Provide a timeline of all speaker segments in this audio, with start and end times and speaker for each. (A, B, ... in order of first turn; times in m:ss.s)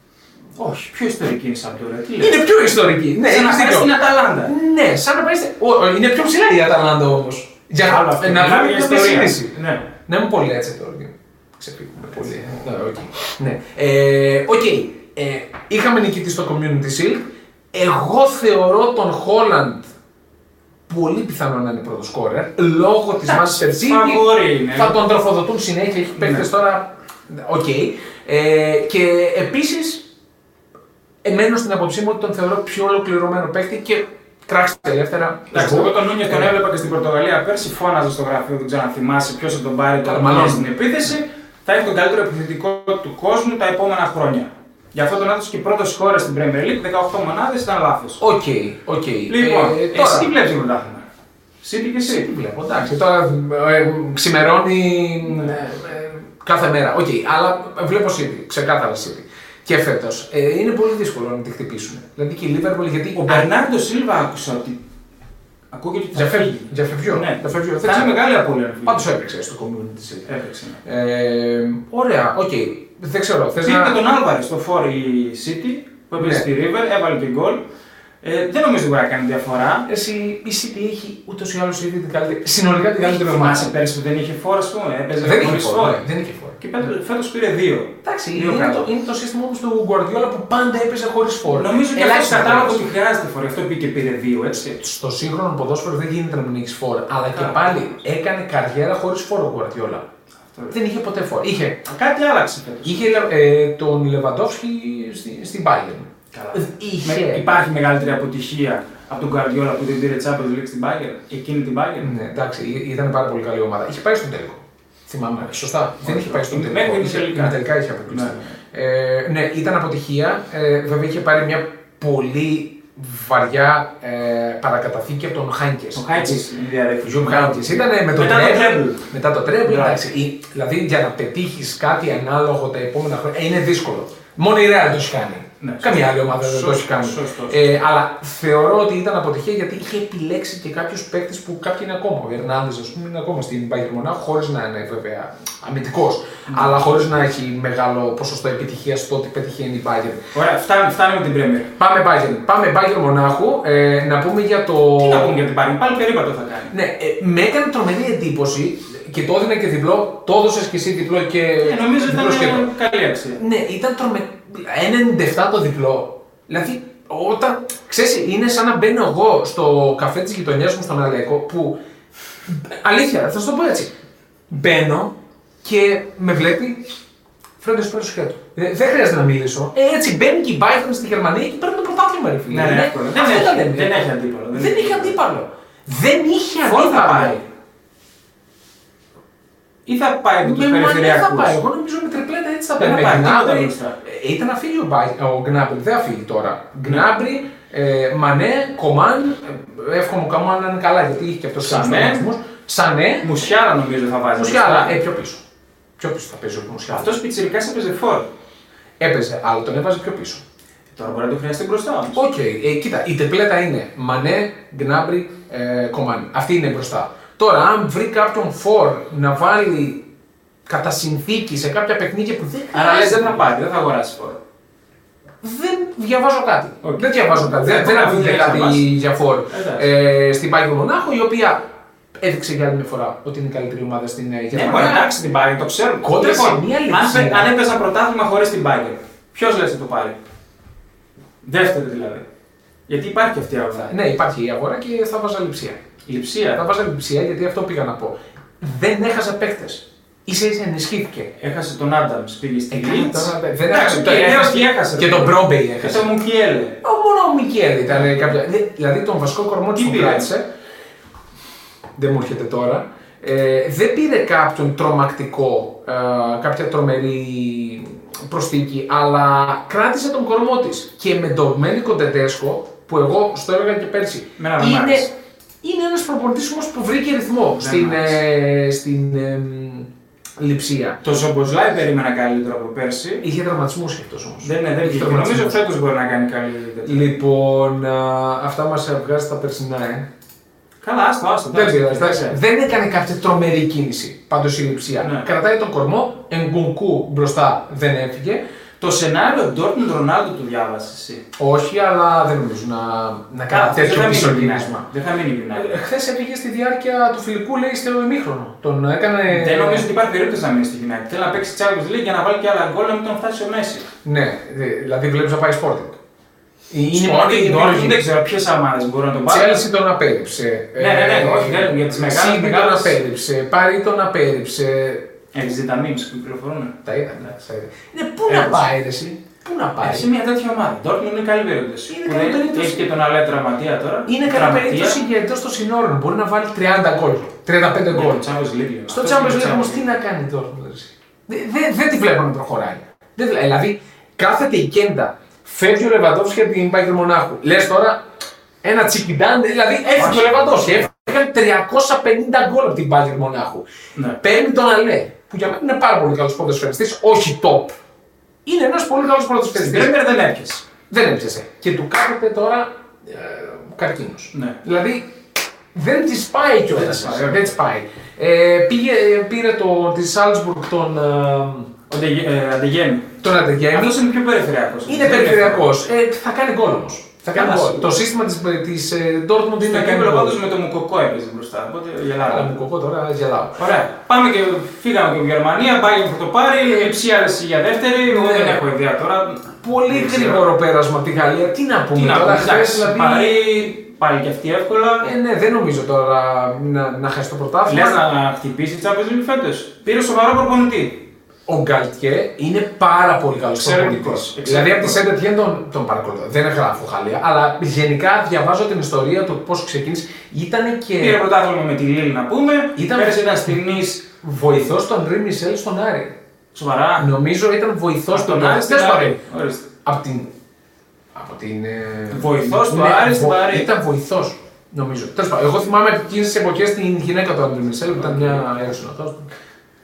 0:00.6-0:02.4 A
0:02.2-0:03.9 B
0:03.2-0:04.5 A
0:04.4-0:19.9 B
0:07.8-0:09.9 A
0:20.9-0:30.1 B
0:23.2-0:25.0 A
0:26.2-0:26.4 A
0:31.2-0:36.5 B
0:35.5-0:48.2 A
0:40.0-0:40.7 B
0:48.2-0:50.3 B
0:49.3-0:51.0 A
0:51.6-0:52.3 A
0:52.0-1:03.5 B
1:03.2-1:04.8 A
1:05.7-1:09.0 A
1:06.1-1:08.2 B
1:08.8-1:10.3 B
1:10.2-1:10.8 A
1:10.8-1:14.0 B
1:13.6-1:17.6 A
1:16.2-1:16.4 B
1:18.2-1:19.9 A
1:19.8-1:23.7 B
1:23.0-1:26.1 A
1:25.2-1:26.6 B
1:26.6-1:28.9 A
1:28.0-1:32.8 B
1:31.5-1:34.8 A
1:34.7-1:40.0 B
1:37.3-1:37.7 A
1:40.7-1:41.9 B
1:41.8-1:43.1 A
1:42.8-1:47.5 B
1:46.3-1:52.2 A
1:52.0-2:06.5 B
1:56.0-1:58.5 A
2:05.9-2:09.0 A
2:07.0-2:30.3 B
2:09.6-2:10.0 A
2:15.6-2:17.8 A
2:26.5-2:26.8 A
2:30.3-2:31.7 A
2:31.8-2:35.4 B
2:35.0-2:36.7 A
2:36.7-2:42.7 B
2:41.6-2:43.4 A
2:43.4-2:51.8 B
2:52.5-2:53.9 B
2:54.5-2:56.9 B
2:57.6-3:07.4 B
3:02.5-3:05.2 A
3:06.6-3:07.4 A
3:09.8-3:11.6 A
3:10.4-3:23.3 B
3:12.8-3:14.0 A
3:21.6-3:22.2 A
3:23.2-3:25.0 A
3:24.3-3:25.4 B
3:26.0-3:27.2 B
3:26.9-3:28.3 A
3:29.0-3:30.4 B
3:30.9-3:32.2 A
3:32.1-3:40.1 B
3:40.6-3:43.4 B
3:42.7-3:44.4 A
3:45.4-3:55.1 B
3:46.8-3:48.9 A
3:49.5-3:49.9 A
3:54.5-4:00.2 A
3:56.0-3:57.5 B
4:01.4-4:02.2 A
4:02.9-4:03.9 A
4:03.8-4:05.9 B
4:06.0-4:06.6 A
4:06.5-4:11.3 B
4:11.4-4:16.8 A
4:12.7-4:16.1 B
4:16.8-4:20.4 B
4:19.7-4:20.3 A
4:22.0-4:35.1 B
4:34.4-4:35.1 A
4:35.6-4:41.0 B
4:37.6-4:38.2 A
4:41.0-4:43.2 A
4:43.2-4:45.6 B
4:44.4-4:47.1 A
4:46.8-4:50.1 B
4:50.8-4:52.4 A
4:51.5-4:58.4 B
4:55.0-4:55.3 A
4:58.8-5:01.2 A
5:01.4-5:04.9 B
5:03.5-5:05.8 A
5:05.5-5:09.9 B
5:09.2-5:13.9 A
5:14.0-5:16.0 B
5:16.7-5:18.0 B
5:16.9-5:19.6 A
5:19.3-5:25.1 B
5:20.8-5:23.0 A
5:25.3-5:27.3 A
5:26.8-5:30.1 B
5:28.3-5:28.6 A
5:29.8-5:35.0 A
5:31.9-5:32.9 B
5:34.0-5:38.3 B
5:37.9-5:39.8 A
5:38.9-5:48.0 B
5:48.6-5:53.6 B
5:49.9-5:50.9 A
5:53.9-5:54.2 A
5:54.2-5:57.8 B
5:58.4-5:59.9 B
5:59.5-6:00.7 A
6:00.9-6:05.2 B
6:04.3-6:04.6 A
6:05.7-6:11.7 B
6:06.7-6:07.5 A
6:11.9-6:13.2 A
6:13.2-6:14.0 B
6:13.7-6:15.7 A
6:14.8-6:20.4 B
6:17.3-6:17.9 A
6:19.6-6:22.5 A
6:22.2-6:23.6 B
6:23.6-6:30.4 A
6:28.0-6:28.6 B
6:29.6-6:33.5 B
6:31.9-6:35.1 A
6:35.0-6:38.0 B
6:37.6-6:41.1 A
6:41.5-6:51.2 B
6:43.6-6:45.0 A
6:51.0-6:54.0 A
6:52.7-6:56.2 B
6:56.5-6:57.1 A
6:57.0-6:59.2 B
6:58.1-6:59.7 A
6:59.8-7:00.3 B
7:01.1-7:09.3 B
7:02.1-7:03.7 A
7:07.9-7:08.6 A